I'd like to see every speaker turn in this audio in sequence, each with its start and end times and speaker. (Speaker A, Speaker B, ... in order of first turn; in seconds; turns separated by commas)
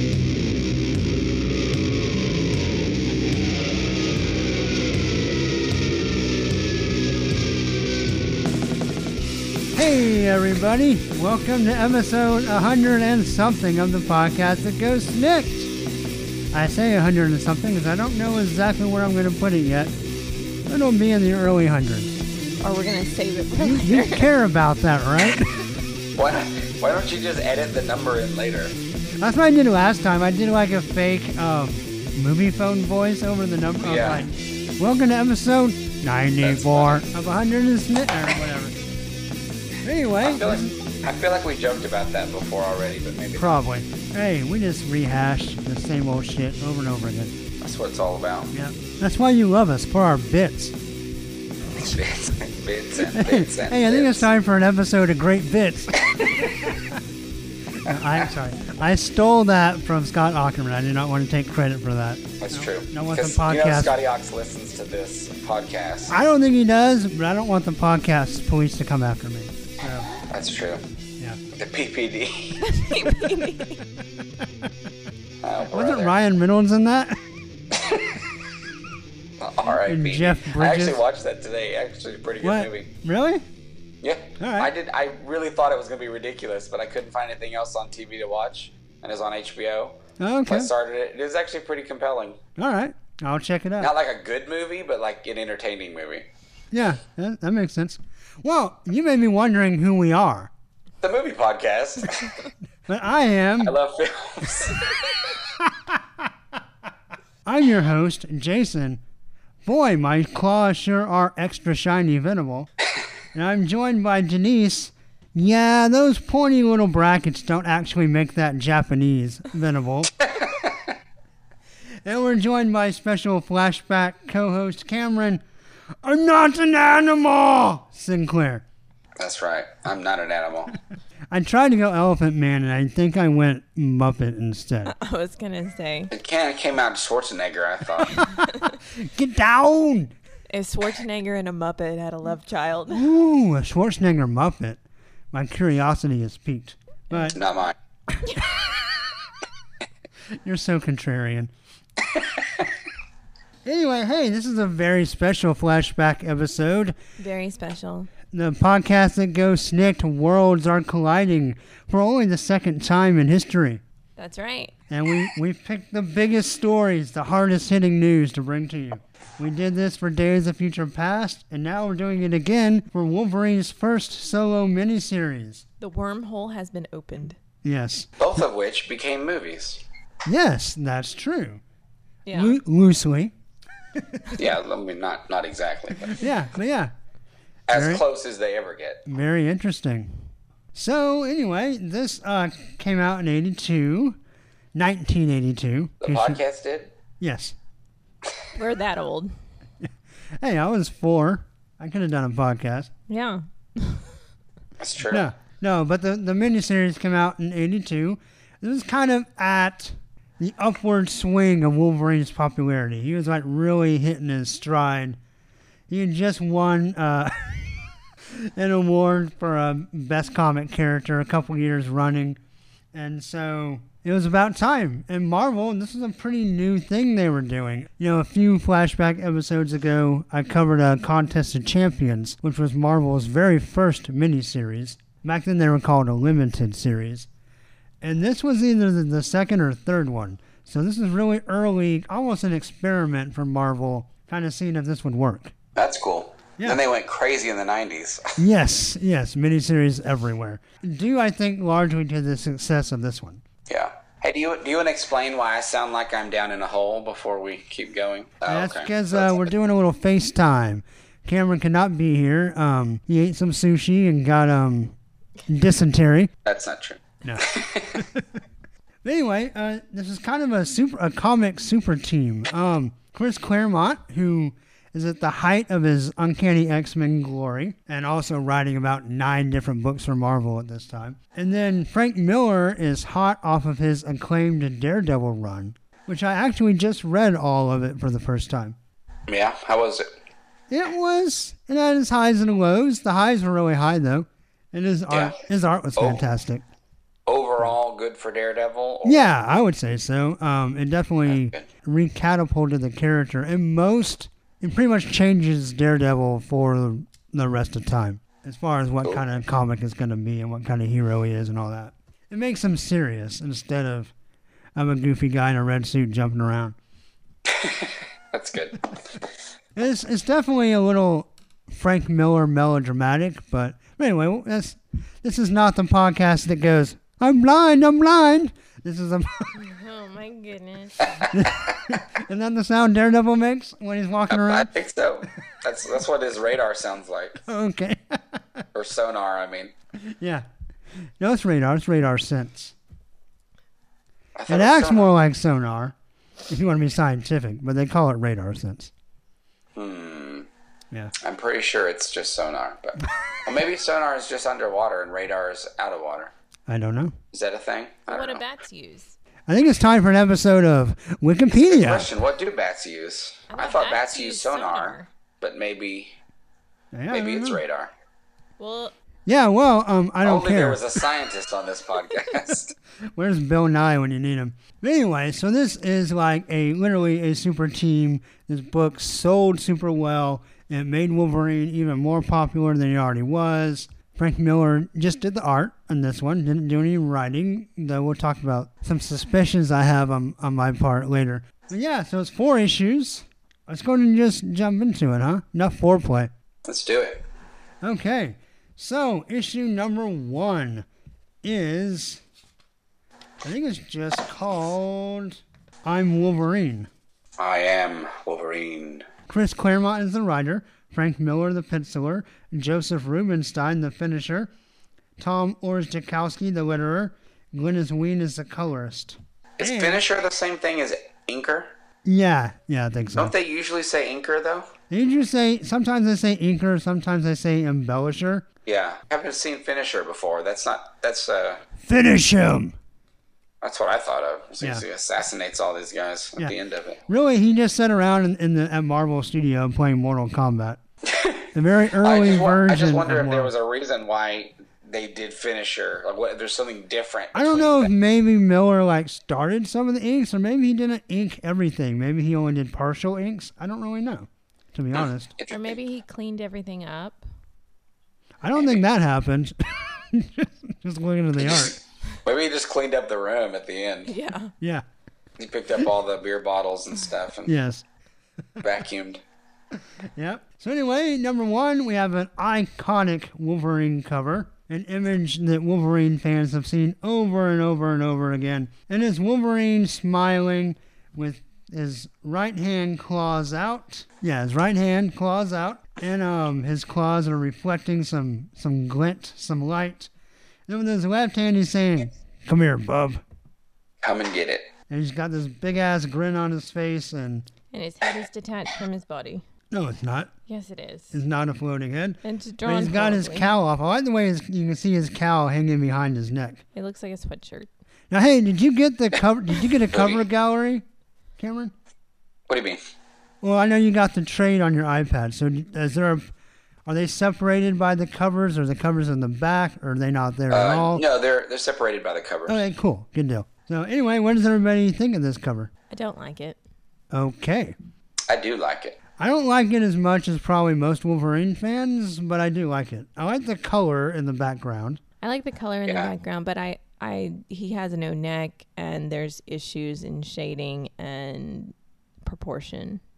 Speaker A: 9.7-15.7, Speaker A: 16.5-19.9, Speaker A: 20.7-22.2, Speaker B: 22.6-24.3, Speaker A: 23.6-25.6, Speaker C: 26.1-28.8, Speaker A: 29.2-38.8, Speaker C: 33.8-34.2, Speaker C: 36.4-37.0, Speaker A: 39.8-40.8, Speaker C: 40.2-43.5, Speaker A: 43.4-47.4, Speaker C: 47.6-48.5, Speaker A: 48.5-50.8, Speaker C: 51.8-54.3, Speaker A: 53.0-57.0, Speaker A: 57.7-63.9, Speaker C: 62.4-66.2, Speaker A: 66.1-70.1, Speaker C: 70.2-70.8, Speaker C: 71.5-72.6, Speaker B: 72.6-73.8, Speaker A: 74.4-74.7, Speaker C: 75.4-76.1, Speaker A: 75.7-77.2, Speaker C: 77.7-78.1, Speaker C: 79.4-82.9, Speaker A: 79.8-81.0, Speaker A: 82.4-83.4, Speaker C: 84.0-92.4, Speaker A: 84.4-84.7, Speaker A: 90.2-90.7, Speaker A: 92.5-93.9, Speaker C: 93.8-96.3, Speaker A: 96.7-100.5, Speaker C: 101.0-102.3, Speaker A: 102.9-103.7, Speaker C: 103.6-105.2, Speaker A: 105.6-106.0, Speaker A: 107.4-109.0, Speaker A: 109.6-112.7, Speaker A: 113.3-120.1, Speaker C: 120.3-120.9, Speaker A: 122.0-125.4, Speaker A: 126.0-128.6, Speaker C: 129.2-130.8, Speaker A: 131.3-134.9, Speaker B: 134.8-136.1, Speaker C: 136.1-138.3, Speaker A: 138.2-140.1, Speaker B: 140.5-143.1, Speaker A: 142.9-144.8, Speaker A: 145.3-147.4, Speaker C: 147.3-147.7, Speaker B: 148.2-148.5, Speaker A: 150.3-151.5, Speaker A: 153.6-156.9, Speaker B: 157.2-158.1, Speaker A: 158.3-163.8, Speaker B: 164.2-164.7, Speaker A: 164.9-175.6, Speaker B: 175.8-177.4, Speaker A: 177.6-178.1, Speaker C: 178.2-179.8, Speaker A: 180.2-181.6, Speaker B: 182.2-182.6, Speaker A: 182.3-183.3, Speaker A: 183.9-184.3, Speaker C: 184.3-186.2, Speaker A: 186.1-186.9, Speaker C: 187.7-189.0, Speaker A: 187.7-188.0, Speaker A: 189.1-190.2, Speaker A: 190.7-194.2, Speaker A: 194.7-196.4, Speaker C: 196.0-196.9, Speaker A: 197.2-197.6, Speaker B: 198.5-199.3, Speaker A: 199.8-202.9, Speaker B: 203.1-204.1, Speaker C: 204.8-205.2, Speaker A: 205.1-215.2, Speaker A: 215.9-222.4, Speaker A: 222.9-237.3, Speaker A: 238.0-245.5, Speaker C: 245.8-248.4, Speaker A: 248.4-253.4, Speaker C: 253.7-259.5, Speaker A: 258.5-264.9, Speaker A: 265.5-266.3, Speaker C: 266.4-268.0, Speaker A: 267.2-268.4, Speaker A: 269.0-288.8, Speaker C: 289.3-290.1, Speaker A: 290.7-296.6, Speaker C: 295.1-295.3, Speaker C: 296.0-296.2, Speaker C: 297.3-299.3, Speaker A: 299.0-314.1, Speaker C: 301.3-301.6, Speaker A: 314.8-316.8, Speaker C: 317.5-319.3, Speaker A: 319.8-329.5, Speaker B: 329.5-331.2, Speaker C: 331.2-331.8, Speaker A: 331.3-334.7, Speaker C: 334.3-337.4, Speaker A: 337.4-338.6, Speaker C: 338.7-339.7, Speaker A: 340.0-340.4, Speaker A: 341.2-342.7, Speaker C: 344.4-345.1, Speaker A: 344.5-345.9, Speaker A: 346.5-348.9, Speaker C: 349.7-350.5, Speaker C: 351.2-356.3, Speaker A: 356.7-357.1, Speaker C: 357.3-358.4, Speaker B: 358.1-359.2, Speaker A: 359.5-362.1, Speaker C: 361.5-366.1, Speaker B: 363.5-365.1, Speaker A: 366.9-367.6, Speaker C: 367.1-367.9, Speaker B: 368.6-368.9, Speaker A: 369.2-371.0, Speaker C: 370.2-372.7, Speaker A: 373.1-396.3, Speaker C: 396.6-397.2, Speaker A: 397.8-400.9, Speaker A: 401.4-402.2, Speaker A: 403.4-406.9, Speaker C: 407.4-409.1, Speaker A: 409.3-414.5, Speaker A: 415.2-420.0, Speaker C: 419.6-421.7, Speaker A: 422.1-423.3, Speaker C: 423.1-424.7, Speaker A: 424.9-428.4, Speaker C: 428.6-431.6, Speaker A: 431.8-432.8, Speaker C: 433.6-437.0, Speaker A: 437.1-440.8, Speaker C: 441.0-447.9, Speaker A: 441.5-443.5, Speaker A: 447.3-455.3, Speaker C: 454.9-455.8, Speaker B: 455.5-457.2, Speaker A: 458.4-461.8, Speaker C: 461.4-464.1, Speaker B: 464.1-464.5, Speaker C: 465.4-467.5, Speaker A: 467.4-467.8, Speaker C: 468.6-469.2, Speaker A: 470.1-490.1, Speaker A: 490.7-493.2, Speaker C: 494.0-494.7, Speaker A: 494.9-497.5, Speaker B: 497.7-499.4, Speaker A: 499.7-500.3, Speaker B: 500.5-501.1, Speaker A: 501.1-506.6, Speaker B: 502.2-503.5, Speaker B: 506.7-507.7, Speaker A: 508.1-510.8, Speaker C: 509.9-510.2, Speaker A: 511.4-511.7, Speaker C: 512.5-512.8, Speaker A: 513.4-516.2, Speaker A: 516.9-521.0, Speaker C: 520.5-522.6, Speaker A: 522.5-525.7, Speaker B: 525.9-526.6, Speaker A: 527.1-527.7, Speaker C: 528.3-529.0, Speaker A: 529.2-535.0, Speaker B: 535.2-543.0